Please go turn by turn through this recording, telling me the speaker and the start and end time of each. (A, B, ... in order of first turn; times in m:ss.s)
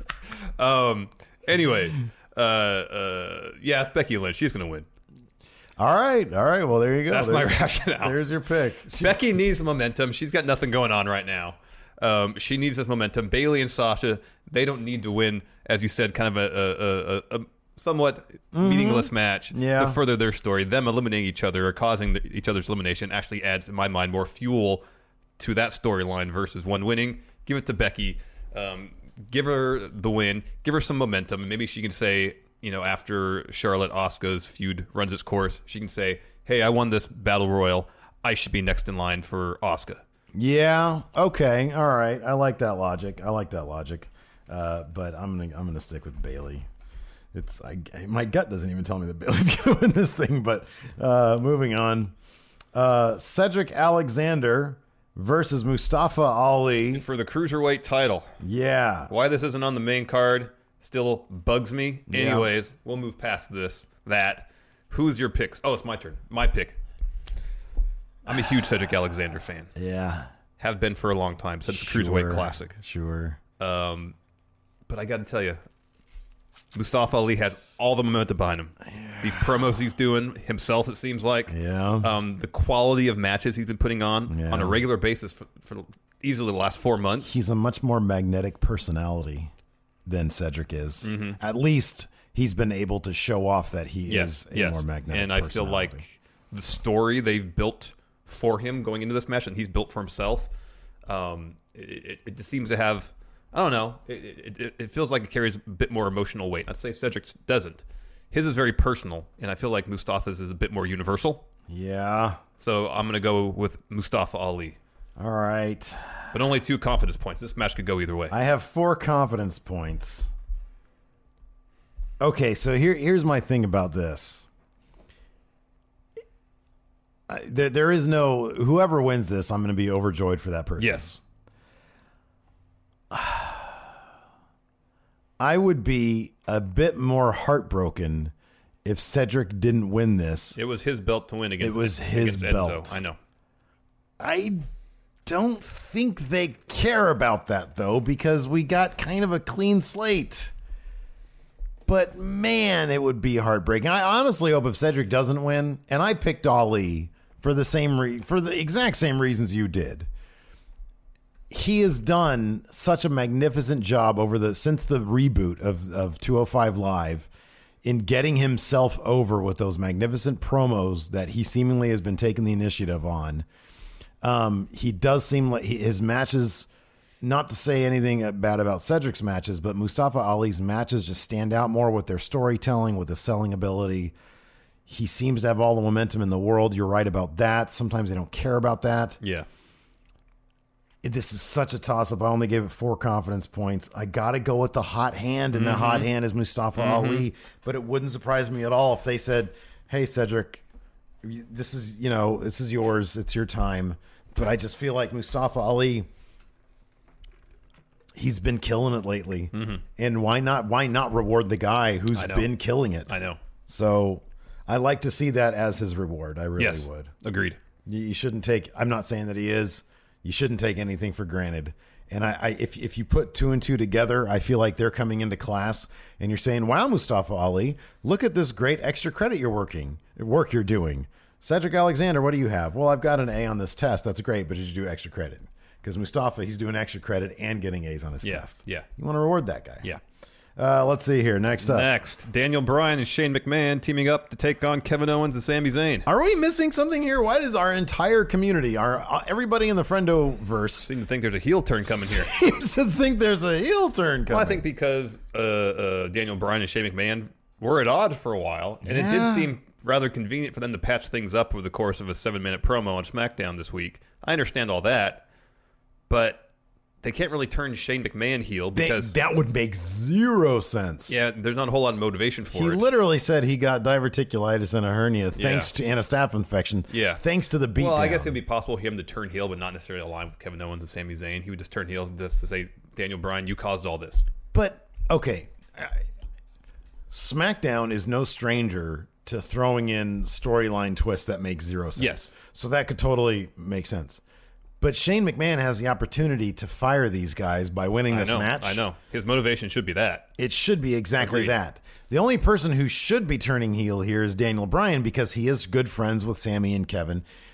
0:00.6-0:04.9 A
0:05.8-0:09.2 B
0:07.1-0:08.2 A
0:09.0-0:24.8 A
0:18.5-0:20.0 B
0:25.4-0:40.0 A
0:40.3-0:46.7 B
0:47.3-0:52.1 B
0:52.7-0:57.0 B
0:56.9-0:58.3 A
0:58.4-0:59.1 B
0:59.1-1:06.8 A
1:02.1-1:02.5 B
1:08.2-1:09.7 A
1:09.8-1:10.3 B
1:10.6-1:12.8 A
1:11.7-1:13.4 B
1:13.6-1:14.1 A
1:14.9-1:15.6 A
1:16.7-1:27.3 A
1:18.9-1:19.5 B
1:21.5-1:22.1 B
1:24.3-1:24.8 B
1:27.2-1:29.5 B
1:30.0-1:36.0 B
1:31.0-1:31.4 A
1:34.1-1:40.5 A
1:41.0-1:51.4 A
1:51.7-1:52.4 B
1:52.6-1:54.8 A
1:55.2-1:56.3 B
1:56.3-1:58.3 A
1:58.3-2:00.3 B
2:02.2-2:04.4 B
2:07.3-2:11.2 B
2:10.8-2:11.1 A
2:13.1-2:13.8 B
2:15.4-2:18.3 B
2:18.8-2:20.6 B
2:20.5-2:23.2 A
2:21.6-2:23.0 B
2:24.2-2:24.7 B
2:25.2-2:30.5 B
2:31.8-2:40.1 B
2:41.5-2:47.3 B
2:47.8-2:53.4 B
2:54.2-2:56.7 B
2:57.2-3:04.1 B
3:04.9-3:09.2 B
3:09.2-3:09.5 A
3:11.0-3:20.6 B
3:15.5-3:16.1 A
3:16.8-3:17.2 A
3:21.2-3:26.1 B
3:28.1-3:33.2 B
3:29.5-3:29.8 A
3:32.1-3:32.5 A
3:33.1-3:33.4 A
3:33.7-3:37.1 B
3:36.6-3:37.6 A
3:37.8-3:59.9 B
3:58.2-3:58.9 A
4:00.6-4:01.9 B
4:01.6-4:06.1 A
4:06.0-4:10.9 B
4:10.8-4:12.3 A
4:11.8-4:14.6 B
4:14.3-4:25.2 A
4:18.8-4:19.5 B
4:26.1-4:26.4 A
4:27.0-4:29.1 A
4:28.7-4:31.2 B
4:31.1-4:32.8 A
4:32.5-4:38.4 B
4:35.4-4:35.7 A
4:36.9-4:37.2 A
4:37.8-4:44.2 A
4:44.5-4:46.0 B
4:47.1-4:54.2 B
4:52.0-4:52.3 A
4:54.8-4:58.8 B
4:58.1-5:00.3 A
5:00.4-5:07.2 B
5:01.2-5:01.5 A